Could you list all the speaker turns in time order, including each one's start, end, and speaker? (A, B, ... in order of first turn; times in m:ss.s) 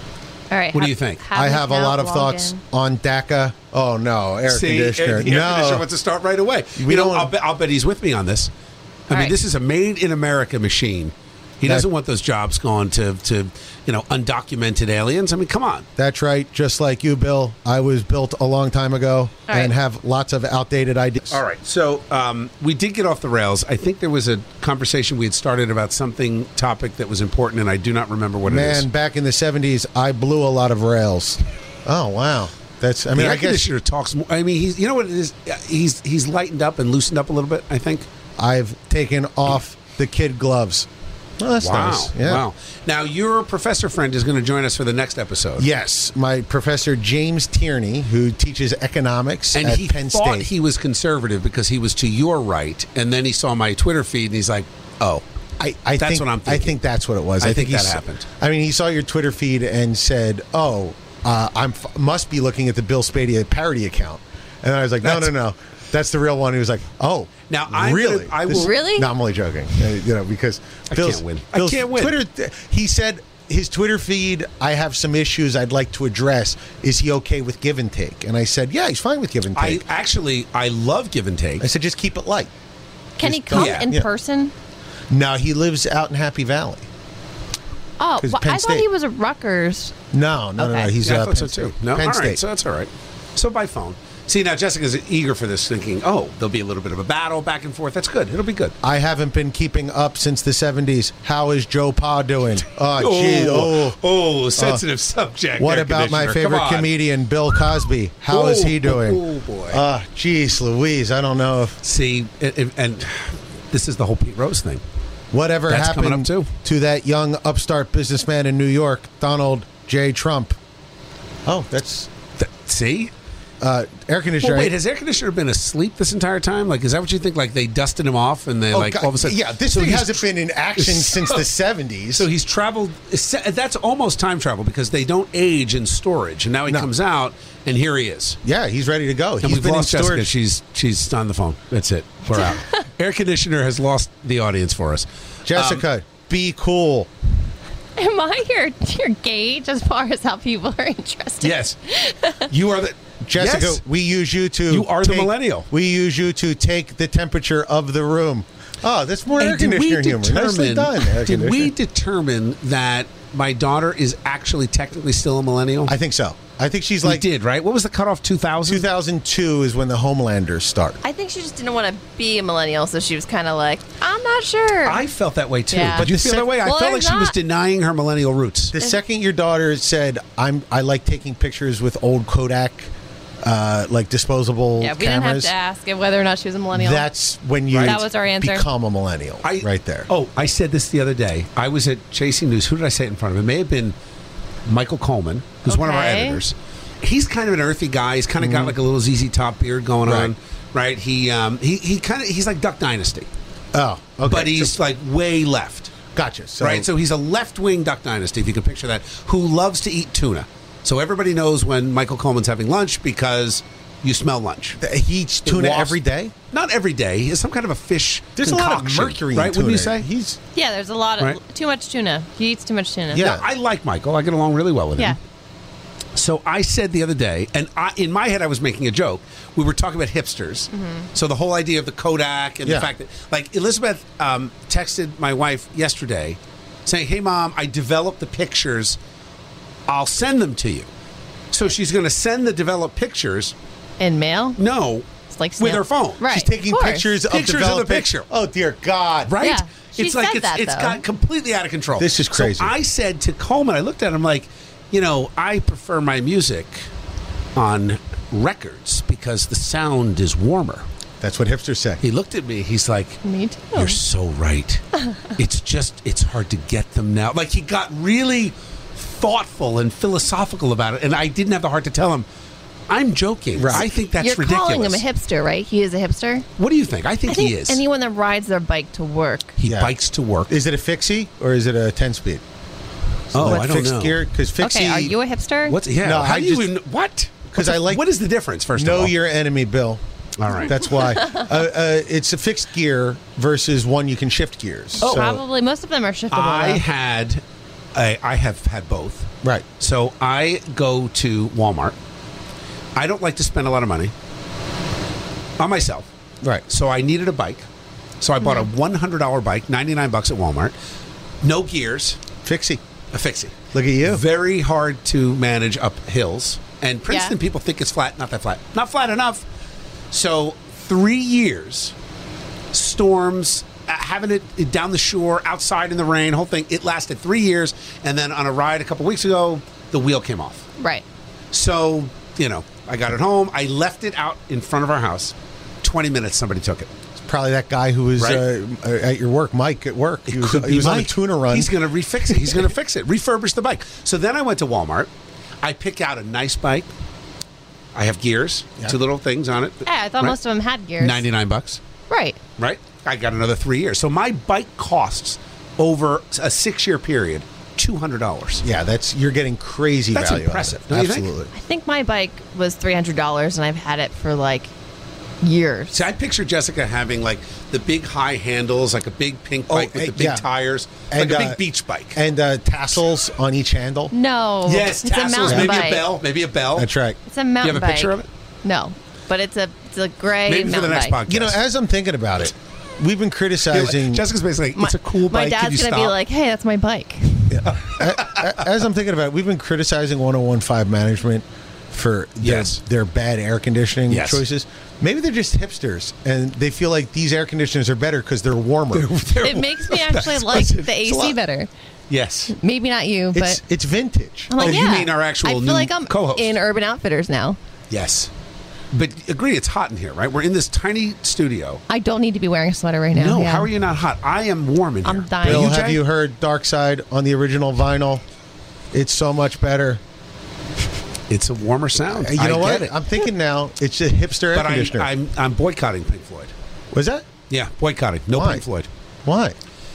0:00.5-0:02.6 A
0:00.7-0:01.2 B
0:01.3-0:05.9 C
0:04.5-0:08.5 B
0:06.8-0:07.3 C
0:09.1-0:15.8 B
0:16.0-0:21.4 C
0:19.5-0:19.7 A
0:21.3-0:28.8 B
0:28.4-0:33.7 C
0:33.1-0:38.1 B
0:38.4-0:40.9 C
0:41.4-0:42.4 C
0:41.6-0:45.7 B
0:45.6-0:50.5 C
0:49.5-0:55.2 B
0:55.6-1:19.8 C
0:56.0-0:56.8 B
0:57.4-0:58.2 B
1:05.0-1:05.3 B
1:07.5-1:08.7 B
1:08.5-1:09.1 A
1:10.9-1:12.2 B
1:19.5-1:21.6 B
1:21.6-1:22.5 C
1:23.2-1:24.5 A
1:23.2-1:24.1 C
1:23.5-1:23.9 B
1:25.1-1:26.9 C
1:28.0-1:30.0 A
1:28.2-1:28.8 C
1:30.1-1:32.4 C
1:30.6-1:30.9 A
1:31.0-1:38.7 B
1:38.8-1:44.0 C
1:43.0-1:46.9 B
1:44.6-1:44.8 C
1:45.6-1:51.8 C
1:48.3-1:49.8 B
1:51.8-1:54.8 B
1:55.3-2:00.6 C
1:55.7-1:56.5 B
2:01.4-2:02.1 C
2:02.4-2:03.1 B
2:03.6-2:04.7 C
2:04.4-2:10.2 B
2:08.7-2:12.3 C
2:10.8-2:11.5 B
2:12.1-2:18.4 B
2:18.4-2:20.3 C
2:19.4-2:25.8 B
2:25.4-2:27.1 C
2:28.0-2:32.5 A
2:31.4-2:31.7 B
2:32.4-2:33.8 B
2:33.2-2:41.7 C
2:34.7-2:35.7 B
2:39.4-2:45.9 B
2:45.8-2:47.2 C
2:47.0-2:48.9 B
2:48.6-2:51.0 C
2:51.0-2:55.0 A
2:54.8-2:58.7 B
2:55.7-2:57.3 A
2:55.9-2:56.5 C
2:58.7-3:02.9 C
3:03.4-3:05.5 C
3:04.8-3:07.1 A
3:06.7-3:10.1 C
3:07.7-3:08.0 B
3:07.8-3:08.7 A
3:09.4-3:13.9 B
3:14.6-3:23.3 B
3:15.7-3:16.4 A
3:18.4-3:18.8 C
3:20.0-3:20.3 C
3:23.7-3:24.7 C
3:24.3-3:25.9 B
3:26.1-3:26.9 C
3:26.6-3:34.8 B
3:34.8-3:36.3 C
3:35.4-3:36.0 B
3:36.5-3:40.1 B
3:38.4-3:40.4 C
3:40.5-3:43.3 A
3:43.1-3:43.4 C
3:43.1-3:45.2 B
3:46.1-3:59.0 B
3:50.7-3:51.1 A
3:59.9-4:00.9 B
4:01.5-4:03.5 B
4:04.0-4:04.6 A
4:04.6-4:05.1 B
4:05.3-4:07.1 A
4:05.6-4:06.2 B
4:06.3-4:09.3 C
4:07.3-4:08.3 B
4:09.2-4:16.9 B
4:09.4-4:11.0 A
4:12.0-4:12.7 C
4:17.6-4:20.8 B
4:21.2-4:22.0 C
4:22.0-4:23.2 B
4:23.2-4:24.0 A
4:23.7-4:24.8 B
4:25.3-4:32.3 B
4:32.9-4:35.0 B
4:33.6-4:33.9 C
4:33.7-4:36.4 A
4:36.6-4:37.8 B
4:37.3-4:39.6 A
4:39.6-4:40.5 B
4:39.6-4:39.9 C
4:40.5-4:42.4 C
4:43.3-4:45.1 C
4:43.3-4:44.2 B
4:44.6-4:45.8 A
4:45.7-4:49.2 B
4:46.0-4:46.7 C
4:47.5-4:48.0 C
4:48.7-4:55.4 C
4:50.4-4:51.0 B
4:55.0-4:56.8 A
4:55.0-4:55.3 B
4:56.3-4:57.4 B
4:57.9-5:02.0 B
5:03.0-5:04.1 B
5:05.6-5:06.1 B
5:06.7-5:07.6 B
5:08.2-5:10.7 B
5:08.4-5:08.7 A
5:11.4-5:12.2 B
5:12.4-5:12.8 C
5:13.1-5:19.4 B
5:13.7-5:14.2 C
5:17.1-5:17.3 A
5:20.1-5:21.9 B
5:22.7-5:30.6 B
5:30.8-5:31.0 A
5:31.5-5:36.9 B
5:37.2-5:42.6 C
5:38.2-5:38.4 B
5:40.3-5:45.1 B
5:45.6-5:46.9 B
5:47.9-5:50.4 B
5:49.8-5:51.2 A
5:51.0-5:51.8 B
5:52.1-5:52.4 A
5:52.6-5:58.6 B
5:58.6-6:01.5 C
6:00.1-6:01.3 B
6:01.5-6:04.7 A
6:05.4-6:05.9 A
6:05.9-6:12.2 B
6:09.7-6:10.4 C
6:11.1-6:11.6 C
6:12.1-6:14.1 C
6:14.1-6:16.0 A
6:14.6-6:16.9 B
6:15.4-6:15.8 C
6:16.8-6:17.2 C
6:17.3-6:21.2 A
6:17.6-6:18.3 B
6:20.4-6:21.6 B
6:21.3-6:24.2 C
6:23.7-6:26.1 B
6:24.8-6:27.6 A
6:27.5-6:39.1 C
6:27.6-6:28.6 B
6:32.4-6:32.8 B
6:34.1-6:34.4 B
6:38.9-6:41.0 B
6:39.4-6:41.7 A
6:41.0-6:41.4 C
6:42.1-6:42.6 B
6:42.5-6:43.6 A
6:43.3-6:44.8 C
6:44.5-6:47.6 A
6:44.6-6:46.6 B
6:47.9-6:48.3 B
6:48.9-6:51.8 B
6:51.9-6:53.7 A
6:53.1-6:56.0 B
6:55.0-6:55.8 A
6:55.4-6:58.2 C
6:58.9-7:00.0 C
7:01.3-7:02.9 B
7:02.1-7:05.1 C
7:04.5-7:06.5 B
7:06.9-7:07.2 C
7:07.5-7:08.9 B
7:08.3-7:08.6 C
7:09.2-7:09.6 C